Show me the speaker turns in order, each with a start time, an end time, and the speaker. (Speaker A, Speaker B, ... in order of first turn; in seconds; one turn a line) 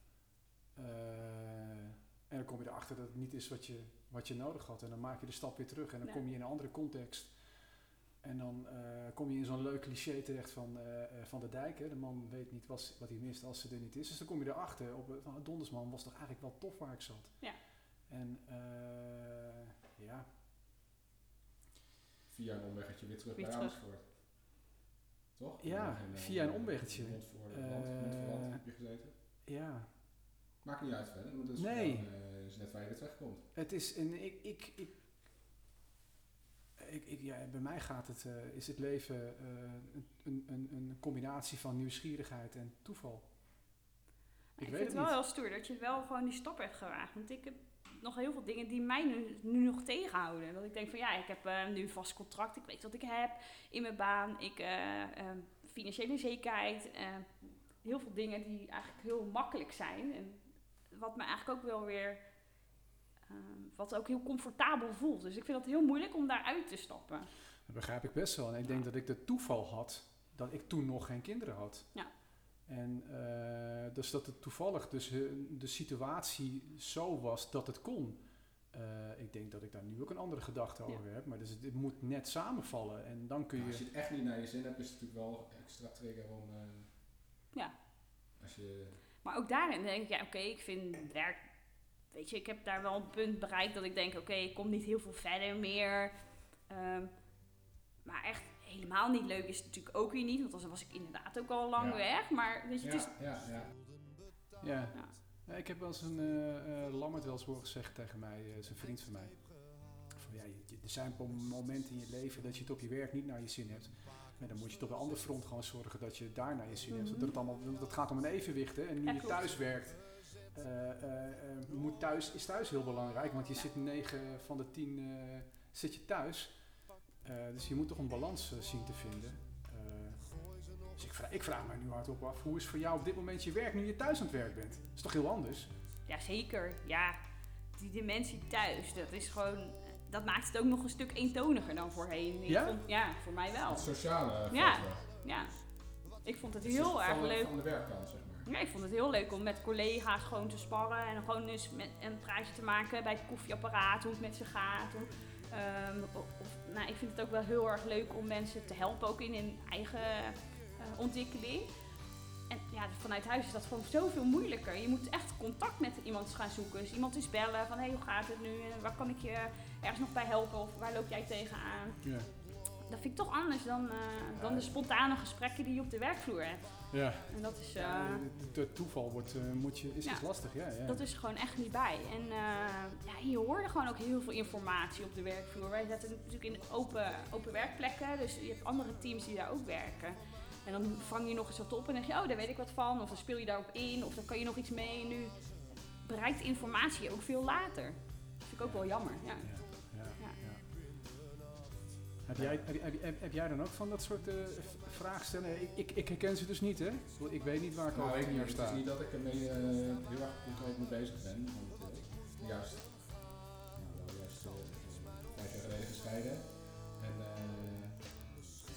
Speaker A: 0.8-7.3
Speaker A: 8.2-17.4
Speaker A: 18.1-20.3
Speaker B: 22.3-24.0
Speaker C: 23.4-23.8
Speaker B: 25.4-29.1
Speaker A: 25.6-28.6
Speaker A: 29.5-29.9
Speaker B: 30.6-33.5
Speaker A: 31.6-32.1
Speaker A: 33.5-34.9
Speaker A: 36.8-43.2
Speaker A: 44.6-45.1
Speaker C: 44.6-57.3
Speaker C: 57.8-62.2
Speaker C: 63.3-67.3
Speaker A: 67.7-71.9
Speaker A: 72.7-78.2
Speaker A: 78.7-83.8
Speaker B: 83.6-86.9
Speaker B: 88.4-89.0
Speaker C: 89.2-91.4
Speaker C: 92.1-96.1
Speaker C: 96.7-97.1
Speaker C: 98.0-103.1
Speaker B: 101.8-102.0
Speaker B: 102.8-103.7
Speaker A: 104.6-109.4
Speaker A: 110.2-120.0
Speaker C: 116.9-117.3
Speaker C: 119.1-119.5
Speaker A: 120.5-126.5
Speaker A: 127.2-130.2
Speaker A: 131.0-135.7
Speaker C: 136.1-137.2
Speaker C: 137.8-143.9
Speaker A: 142.5-142.8
Speaker B: 143.7-145.0
Speaker C: 144.5-145.5
Speaker C: 146.2-147.5
Speaker B: 146.6-148.5
Speaker C: 148.5-161.7
Speaker C: 162.5-172.0
Speaker A: 172.0-172.3
Speaker C: 172.9-176.6
Speaker B: 174.4-174.7
Speaker A: 176.9-181.0
Speaker C: 177.3-178.2
Speaker C: 180.9-195.3
Speaker C: 196.0-199.5
Speaker A: 199.4-200.6
Speaker A: 202.3-208.8
Speaker B: 202.4-202.7
Speaker B: 207.9-218.1